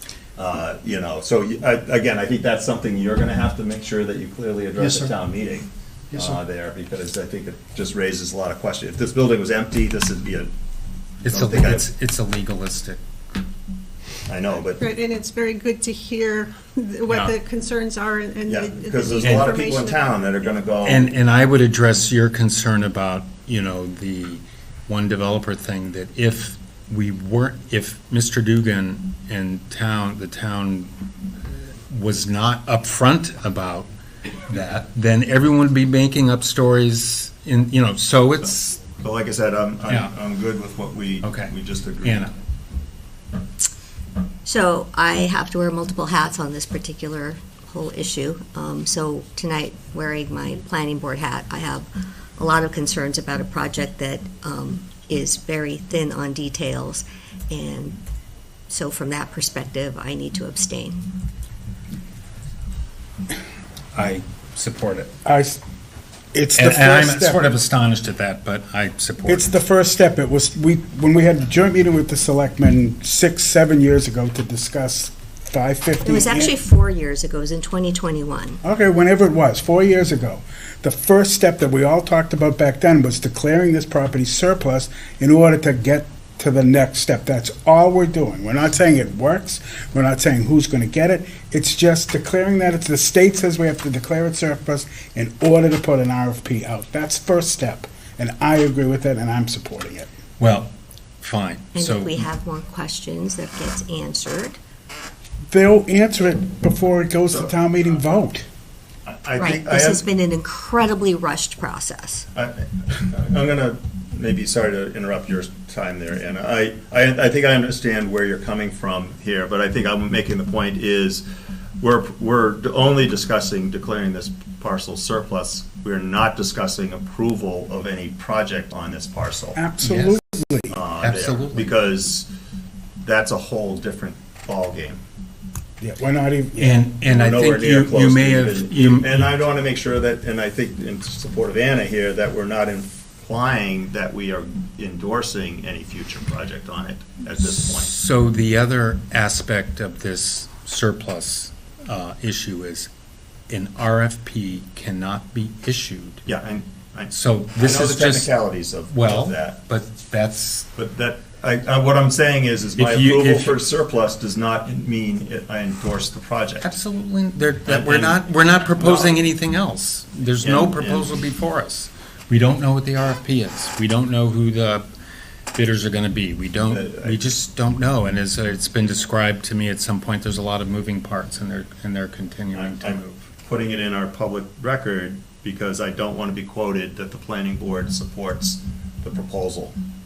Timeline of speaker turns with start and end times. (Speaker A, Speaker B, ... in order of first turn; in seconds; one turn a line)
Speaker A: 0.4-10.5
Speaker B: 11.2-13.0
Speaker A: 11.2-11.9
Speaker A: 14.3-14.8
Speaker C: 14.8-20.1
Speaker A: 18.5-21.1
Speaker B: 19.2-19.6
Speaker B: 20.8-30.9
Speaker B: 31.5-33.9
Speaker B: 34.5-38.8
Speaker A: 38.4-42.3
Speaker B: 39.9-40.1
Speaker B: 41.2-42.3
Speaker D: 44.5-58.0
Speaker D: 58.7-61.0
Speaker B: 63.9-65.1
Speaker E: 65.2-65.6
Speaker E: 66.3-67.4
Speaker B: 66.6-69.5
Speaker E: 69.2-76.5
Speaker D: 76.0-78.6
Speaker E: 78.6-100.1
Speaker B: 100.4-100.7
Speaker B: 101.2-102.2
Speaker D: 101.8-104.6
Speaker E: 105.5-108.4
Speaker A: 109.1-110.0
Speaker D: 109.4-112.3
Speaker A: 112.3-121.2
Speaker A: 121.8-129.6
Speaker E: 129.6-130.8
Speaker B: 129.8-130.2
Speaker A: 130.7-132.3
Speaker B: 131.0-131.7
Speaker A: 133.0-135.0
Speaker E: 135.8-136.8
Speaker B: 136.6-139.2
Speaker A: 137.1-147.9
Speaker B: 147.8-152.9
Speaker B: 153.5-156.2
Speaker A: 156.2-159.6
Speaker B: 157.1-158.3
Speaker B: 158.9-160.7
Speaker A: 160.8-166.7
Speaker B: 162.8-163.6
Speaker B: 166.6-174.8
Speaker A: 167.7-169.2
Speaker A: 170.4-171.1
Speaker B: 175.5-183.2
Speaker A: 176.7-177.2
Speaker A: 182.5-189.8